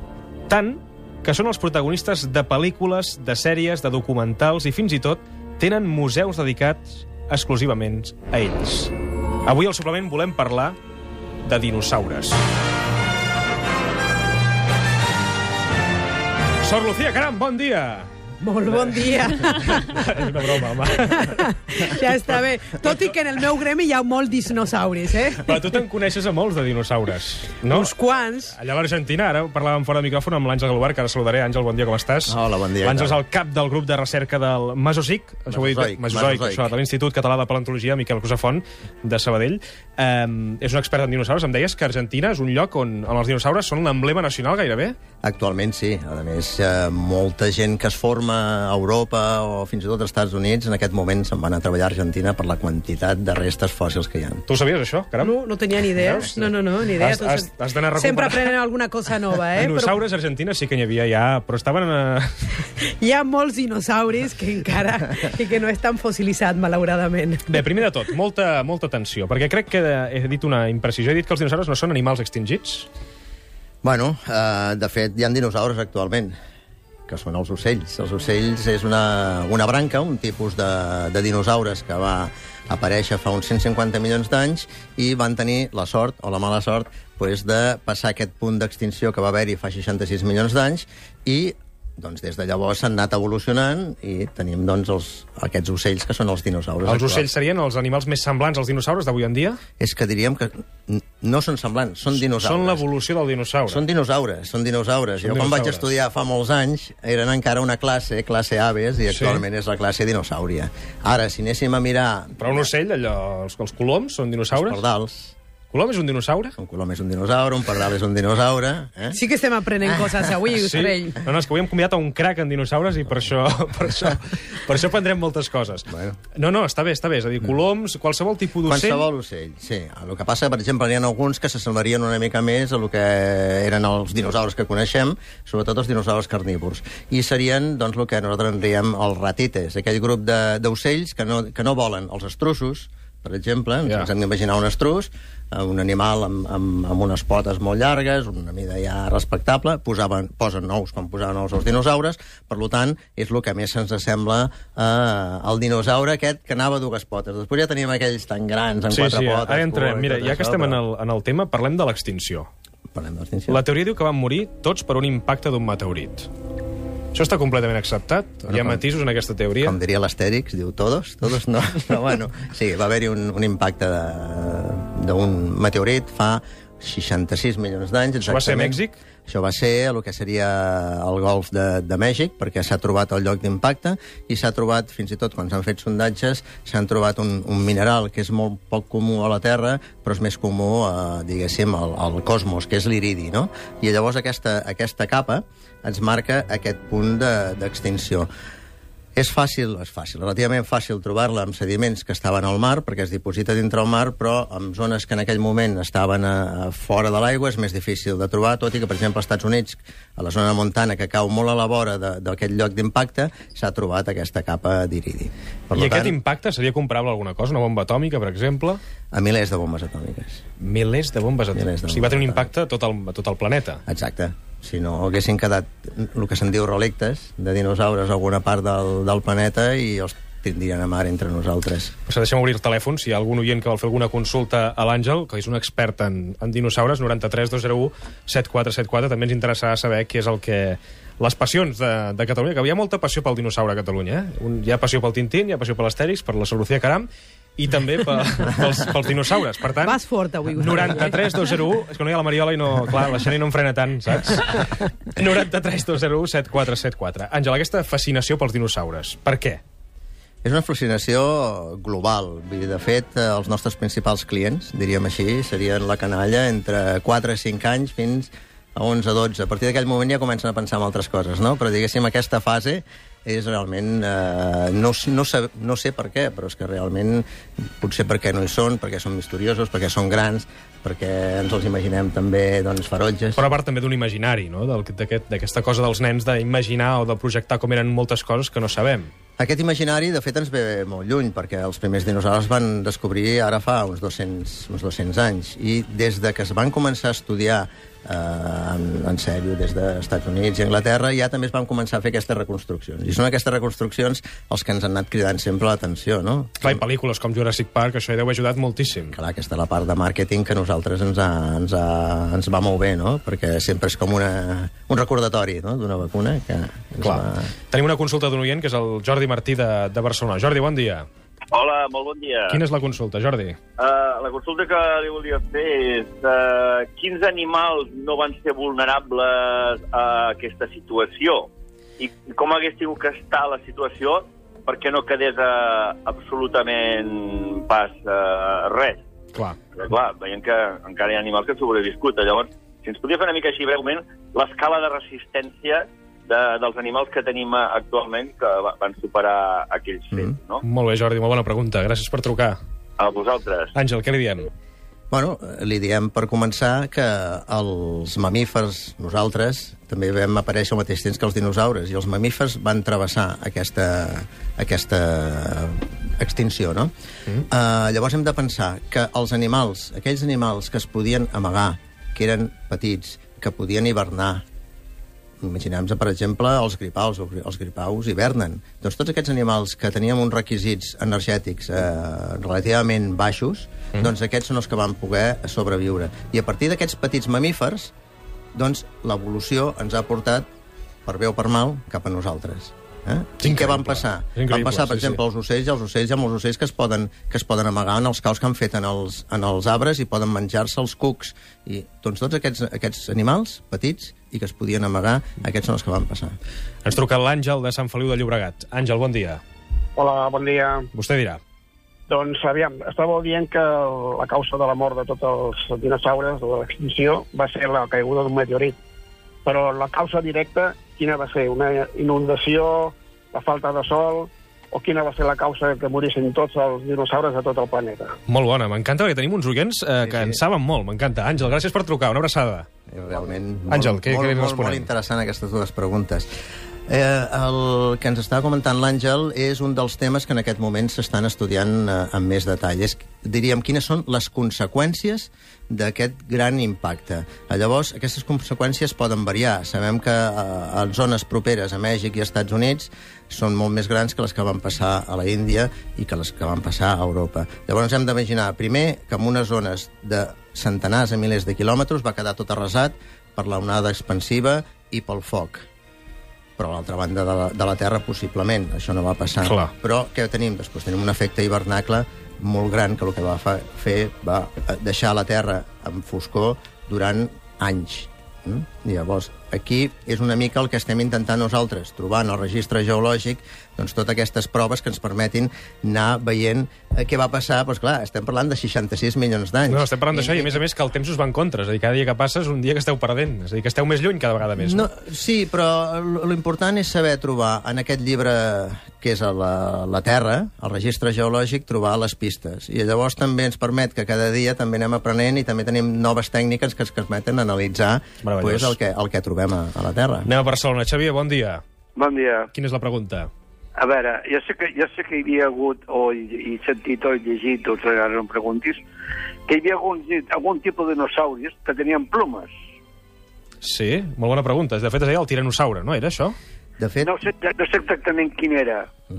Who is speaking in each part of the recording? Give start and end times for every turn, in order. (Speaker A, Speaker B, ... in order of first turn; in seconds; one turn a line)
Speaker A: 0.5-8.9
Speaker A: 9.4-10.8
Speaker A: 11.4-12.4
Speaker A: 16.6-18.1
Speaker B: 18.4-20.0
Speaker A: 18.7-22.0
Speaker B: 21.0-25.5
Speaker A: 25.4-27.9
Speaker B: 27.7-28.5
Speaker A: 28.5-45.0
Speaker C: 32.3-33.2
Speaker C: 35.5-36.7
Speaker C: 45.2-54.4
Speaker A: 54.5-55.4
Speaker B: 55.2-60.0
Speaker A: 56.0-58.5
Speaker A: 59.5-62.6
Speaker B: 62.8-67.6
Speaker A: 67.5-72.9
Speaker C: 73.8-76.3
Speaker C: 77.1-97.3
Speaker A: 96.8-99.6
Speaker C: 99.8-102.8
Speaker A: 102.2-103.8
Speaker C: 103.7-112.7
Speaker A: 105.2-105.8
Speaker A: 109.1-109.4
Speaker A: 112.4-114.8
Speaker C: 114.5-115.3
Speaker A: 115.7-116.5
Speaker C: 116.6-119.2
Speaker B: 119.1-121.2
Speaker A: 120.5-129.1
Speaker C: 125.9-126.2
Speaker C: 128.6-160.8
Speaker A: 158.9-162.5
Speaker C: 162.9-163.6
Speaker A: 163.5-166.3
Speaker A: 167.1-169.8
Speaker C: 168.5-168.8
Speaker C: 169.6-198.3
Speaker A: 178.2-179.0
Speaker C: 199.2-216.2
Speaker A: 215.7-218.8
Speaker C: 219.1-220.4
Speaker A: 220.6-223.8
Speaker C: 221.5-222.5
Speaker C: 223.9-231.9
Speaker A: 232.1-250.0
Speaker B: 249.8-251.2
Speaker A: 250.5-259.6
Speaker C: 260.4-277.2
Speaker C: 277.8-283.4
Speaker A: 283.4-289.1
Speaker C: 289.4-306.8
Speaker A: 306.6-309.1
Speaker C: 309.1-317.5
Speaker A: 317.0-321.1
Speaker D: 321.5-322.6
Speaker A: 322.5-323.6
Speaker D: 323.8-339.0
Speaker D: 339.7-350.6
Speaker A: 350.6-352.6
Speaker D: 353.0-353.7
Speaker A: 353.7-354.5
Speaker C: 355.1-366.9
Speaker C: 367.5-374.4
Speaker C: 375.4-387.9
Speaker C: 388.5-390.4
Speaker C: 391.1-406.4
Speaker A: 393.4-395.2
Speaker A: 406.8-409.4
Speaker E: 410.0-410.9
Speaker A: 410.9-411.4
Speaker E: 412.1-418.8
Speaker E: 419.4-428.1
Speaker A: 428.3-432.7
Speaker C: 430.0-430.4
Speaker C: 432.9-436.3
Speaker A: 433.7-434.9
Speaker C: 436.9-465.6
Speaker C: 466.6-490.6
Speaker A: 469.4-469.7
Speaker A: 489.7-494.9
Speaker C: 494.6-510.3
Speaker A: 508.2-508.7
Speaker A: 510.2-511.6
Speaker F: 512.0-512.4
Speaker A: 512.5-513.3
Speaker F: 513.8-518.8
Speaker F: 519.5-522.5
Speaker A: 523.6-526.3
Speaker C: 526.8-527.1
Speaker F: 527.1-528.8